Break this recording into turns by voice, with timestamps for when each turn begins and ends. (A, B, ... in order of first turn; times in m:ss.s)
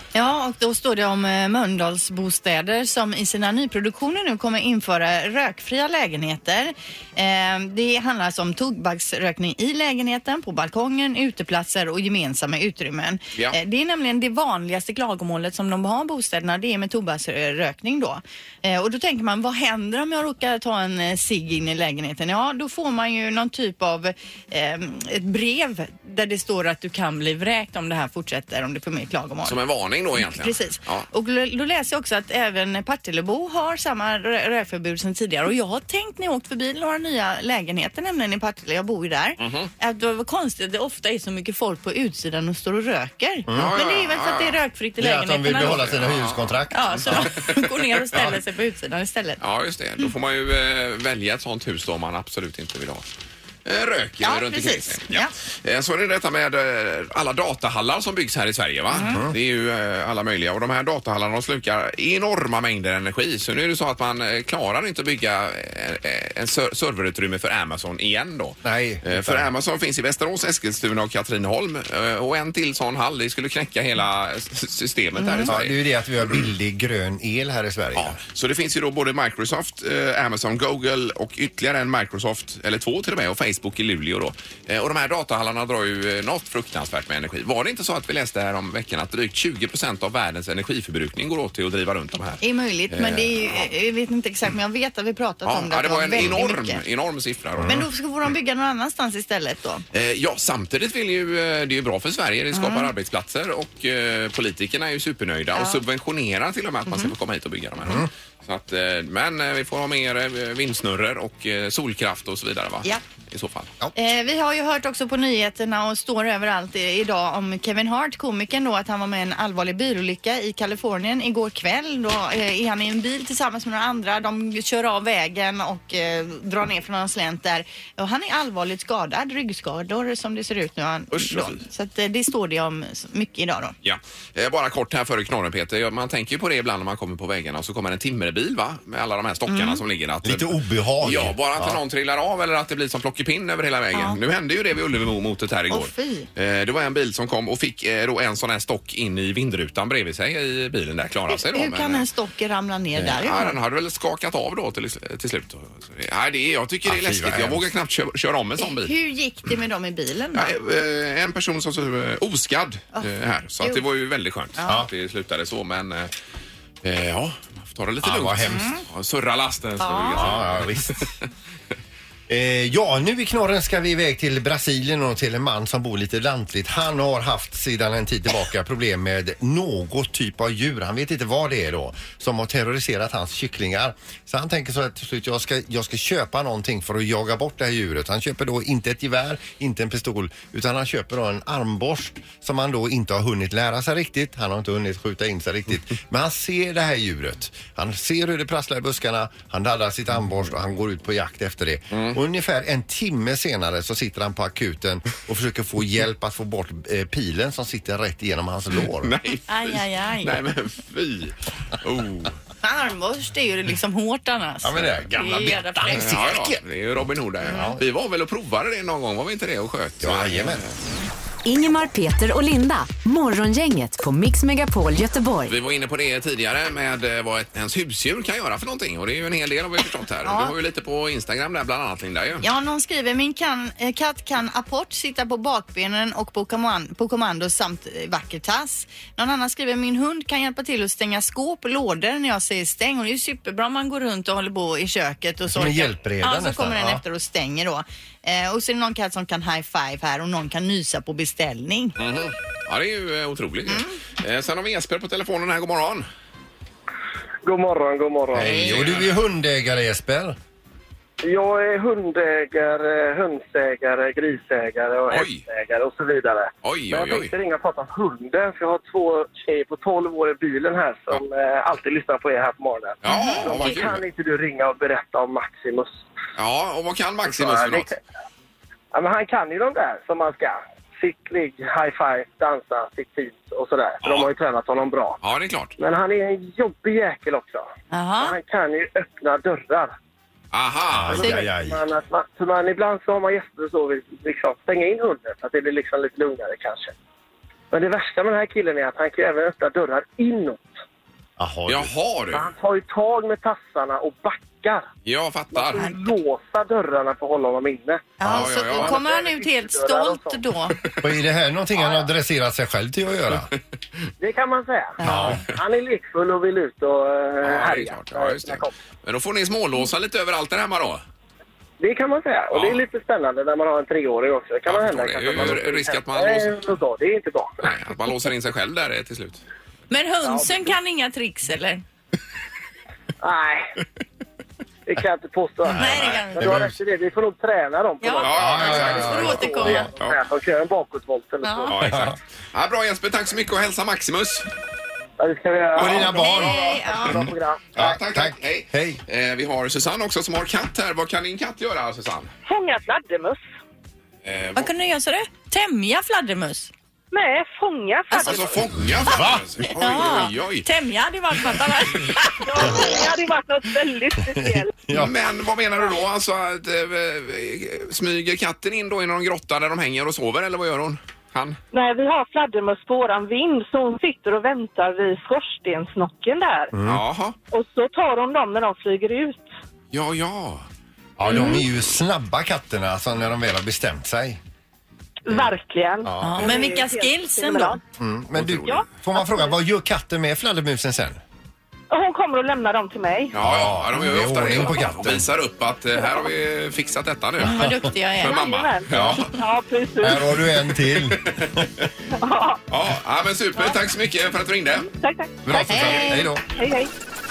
0:00.2-0:29.6 A
0:29.4-0:31.1 B
0:30.2-0:45.8 A
0:39.4-0:39.7 B
0:43.5-0:43.8 C
0:43.5-0:44.6 B
0:45.0-0:47.3 C
0:45.6-0:48.3 B
0:46.7-0:49.4 A
0:49.4-0:53.1 B
0:53.7-1:15.8 B
0:54.2-0:55.3 A
0:58.9-0:59.2 A
0:59.0-0:59.4 C
1:08.6-1:09.5 C
1:15.2-1:15.5 A
1:15.5-1:18.2 C
1:18.0-1:33.3 B
1:32.4-1:36.8 A
1:35.4-1:37.8 B
1:37.6-1:37.9 C
1:37.6-1:39.8 A
1:39.9-1:53.7 B
1:42.5-1:42.9 A
1:45.5-1:45.8 A
1:46.9-1:47.1 A
1:54.0-2:13.8 A
2:11.1-2:11.6 B
2:13.8-2:32.0 B
2:19.5-2:19.8 A
2:20.2-2:21.8 C
2:23.9-2:24.2 A
2:25.7-2:26.3 A
2:31.3-2:33.6 A
2:33.0-2:38.9 B
2:36.9-2:37.6 C
2:38.6-2:40.5 A
2:40.3-2:46.1 B
2:44.6-2:44.8 A
2:46.8-2:51.1 B
2:48.0-2:48.7 C
2:48.5-2:48.8 A
2:49.8-2:50.3 A
2:50.1-2:51.1 C
2:52.3-3:29.2 C
3:21.9-3:22.2 B
3:29.0-3:32.4 B
3:29.5-3:30.4 A
3:32.6-3:36.2 A
3:34.6-3:36.6 C
3:35.9-3:40.8 B
3:37.4-3:37.8 C
3:40.0-3:40.6 C
3:41.4-3:45.6 D
3:45.5-3:52.5 B
3:50.2-3:50.5 A
3:52.4-4:12.0 A
4:05.5-4:07.0 C
4:12.0-4:16.1 B
4:13.7-4:14.0 A
4:17.4-4:18.6 E
4:18.3-4:20.4 C
4:18.4-4:19.1 B
4:21.2-4:36.1 E
4:25.1-4:25.4 B
4:26.6-4:27.3 B
4:33.0-4:34.0 B
4:33.1-4:33.8 A
4:36.4-4:37.9 B
4:37.2-4:38.0 E
4:38.9-4:45.2 E
4:44.0-4:44.3 B
4:45.2-4:45.8 B
4:45.8-4:47.7 E
4:47.9-4:48.4 A
4:48.2-4:49.9 E
4:50.5-4:51.3 B
4:50.9-4:51.8 C
4:51.2-4:57.0 E
4:51.2-4:51.5 A
4:57.7-5:00.7 E
5:01.4-5:01.9 C
5:01.7-5:02.5 B
5:02.3-5:04.8 E
5:05.0-5:05.8 B
5:05.5-5:10.4 E
5:08.2-5:10.8 A
5:08.2-5:09.0 B
5:11.0-5:13.5 C
5:14.2-5:18.7 E
5:15.0-5:15.4 A
5:15.0-5:15.4 C
5:17.4-5:21.0 B
5:21.8-5:27.6 E
5:22.5-5:22.8 B
5:24.7-5:26.5 B
5:27.6-5:29.4 B
5:29.9-5:31.8 A
5:30.2-5:30.7 E
5:33.2-5:33.7 E
5:34.9-5:41.8 E
5:35.7-5:36.5 A
5:35.7-5:36.8 C
5:38.0-5:39.9 A
5:38.2-5:39.4 B
5:38.3-5:39.9 C
5:41.4-5:41.8 A
5:41.7-5:44.5 B
5:41.8-5:42.2 C
5:45.2-5:47.6 E
5:45.8-5:46.6 C
5:45.8-5:46.6 B
5:46.0-5:47.2 A
5:47.1-5:52.3 B
5:47.2-5:49.0 C
5:52.4-5:53.4 F
5:54.2-5:54.7 B
5:54.6-5:56.7 A
5:57.1-5:58.6 F
5:58.1-5:58.4 A
5:58.2-6:00.7 B
5:59.0-5:59.5 C
5:59.6-6:02.7 A
6:02.4-6:04.8 F
6:04.3-6:05.1 C
6:04.9-6:11.6 B
6:11.7-6:16.7 F
6:16.7-6:17.0 C
6:16.9-6:17.4 B
6:17.5-6:19.5 F
6:19.9-6:20.6 B
6:21.2-6:24.4 C
6:21.3-6:21.6 A
6:25.2-6:27.8 F
6:26.0-6:26.6 C
6:26.2-6:27.8 A
6:28.0-6:31.2 C
6:28.5-6:29.5 F
6:31.9-6:33.3 F
6:33.3-6:37.7 B
6:33.4-6:35.3 C
6:37.4-6:37.9 C
6:37.4-6:38.5 A
6:38.2-6:39.3 B
6:38.2-6:40.3 F
6:38.9-6:39.2 C
6:40.0-6:41.2 C
6:40.9-6:41.9 B
6:42.2-6:42.6 F
6:42.7-6:44.9 B
6:44.8-6:46.9 F
6:45.5-6:46.4 C
6:45.6-6:46.3 A